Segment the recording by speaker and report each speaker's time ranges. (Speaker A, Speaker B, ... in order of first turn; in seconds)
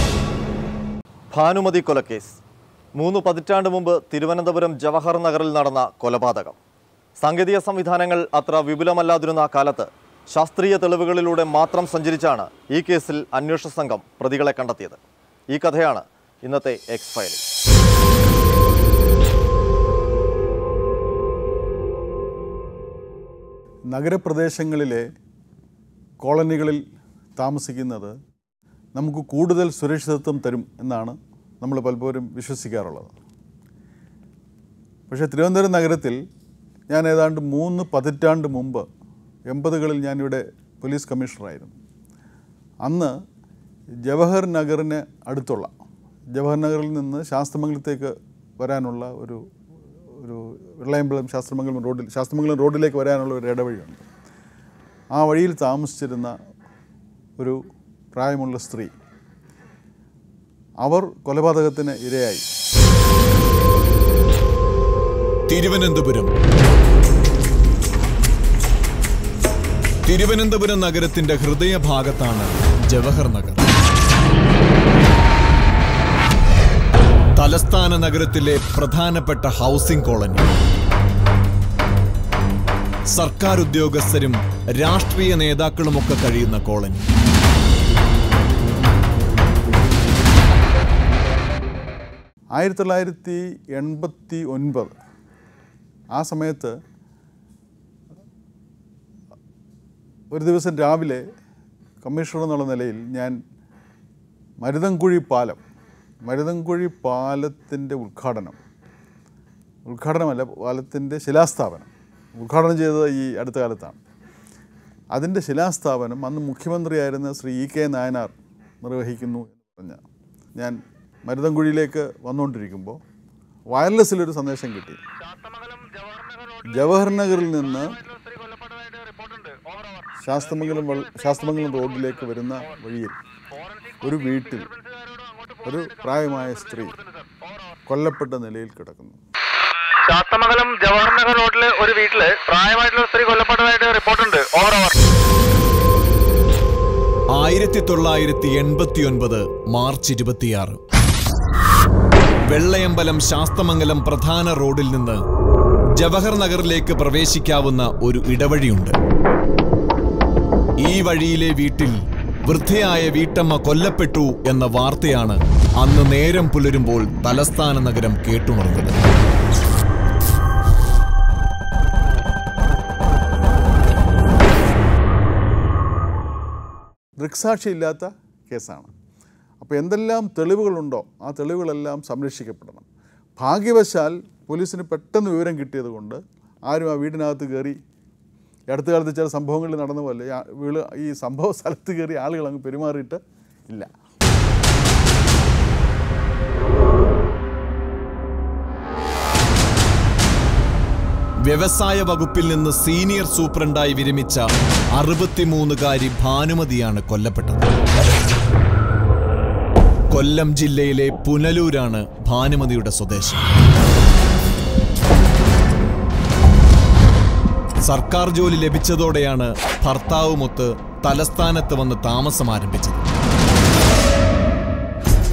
Speaker A: 1.3-2.4, 2.9-6.6, 7.2-17.4
Speaker B: 23.9-25.1, 26.2-26.8, 27.4-28.1, 29.0-33.1, 35.1-36.2, 36.9-38.9, 39.5-41.8, 42.8-43.1, 44.1-45.7, 46.3-49.4, 50.2-54.0, 55.1-56.3, 58.1-58.9, 60.8-62.5, 92.5-94.9, 96.1-96.8, 100.3-101.2, 102.0-103.4, 104.6-105.6, 106.2-108.6, 109.9-114.0, 115.1-120.0, 120.6-123.0, 123.7-125.0, 126.7-127.9, 130.2-133.2, 134.0-134.7, 135.7-137.0, 137.9-139.2, 177.2-178.9, 179.6-182.9, 183.4-187.8, 188.7-193.9
Speaker C: 65.5-66.3, 70.1-73.6, 77.4-80.5, 83.1-87.0, 147.4-150.8, 152.5-155.2, 155.9-159.0, 160.8-169.0, 201.5-204.4, 205.0-207.7, 210.1-213.5, 217.8-223.0
Speaker D: 128.8-129.8, 140.1-144.9